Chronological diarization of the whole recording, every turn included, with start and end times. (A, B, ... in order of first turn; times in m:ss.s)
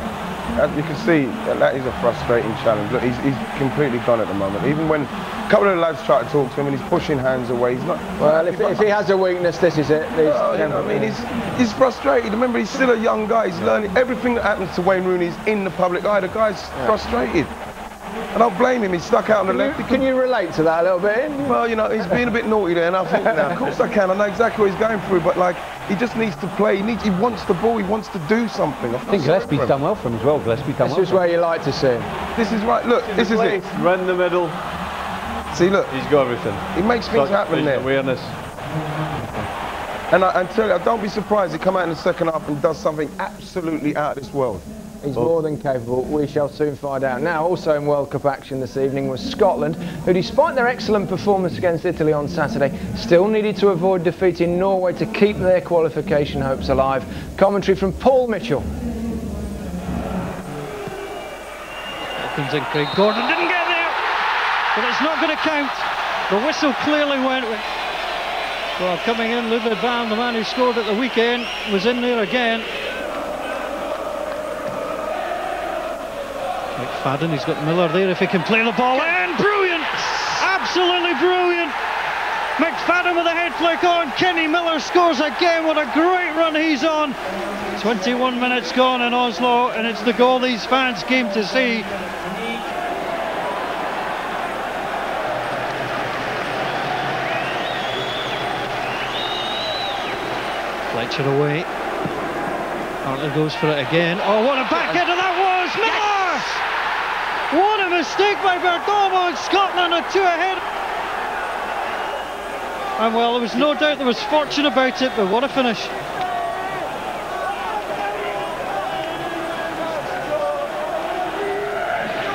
0:00.6-0:08.9 A
0:08.2-0:11.2 B
0:10.2-0:17.5 A
0:18.3-0:20.0 A
0:19.5-0:21.6 B
0:21.4-0:29.7 A
0:23.4-0:23.7 B
0:29.1-0:31.2 C
0:30.8-0:32.1 B
0:32.4-0:33.6 A
0:33.1-0:34.6 D
0:35.5-0:35.9 A
0:35.9-0:38.3 D
0:36.7-0:37.9 A
0:40.1-0:44.6 A
0:45.0-0:58.7 B
1:02.2-1:04.0 E
1:04.7-1:07.6 E
1:08.8-1:12.7 E
1:16.8-1:21.7 E
1:22.6-1:27.2 E
1:27.8-1:31.9 E
1:40.9-1:41.7 E
1:43.0-1:46.6 E
1:47.5-1:50.6 E
1:53.0-1:55.9 E